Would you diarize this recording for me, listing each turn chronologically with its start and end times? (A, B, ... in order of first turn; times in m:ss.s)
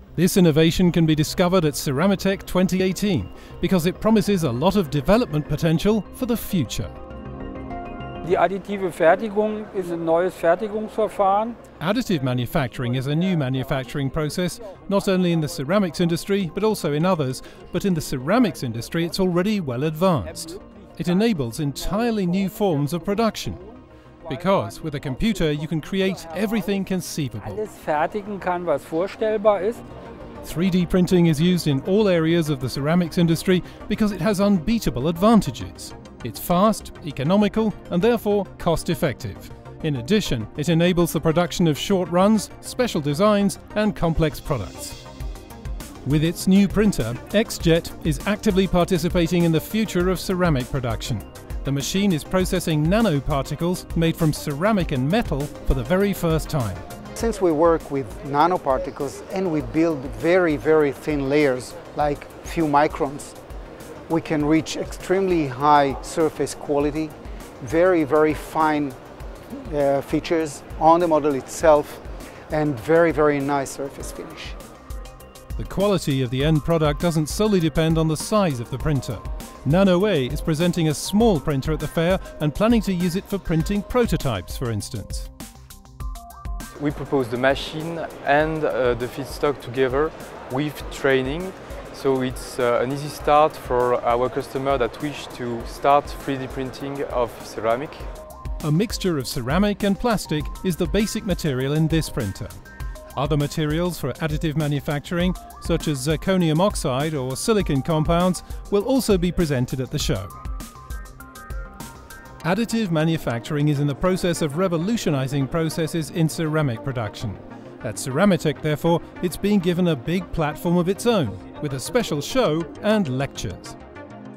0:00.2-0:06.9 A
0:08.2-0:11.6 B
0:11.8-0:23.6 A
0:22.0-0:22.4 B
0:23.6-0:26.7 B
0:24.3-0:27.6 A
0:27.4-0:29.8 B
0:30.4-0:45.0 A
0:46.0-0:56.8 A
0:57.2-1:03.4 C
1:04.1-1:09.0 C
1:09.5-1:14.6 C
1:15.6-1:25.3 A
1:26.8-1:38.1 D
1:38.6-1:42.6 A
1:43.2-1:50.3 A
1:52.4-2:03.8 A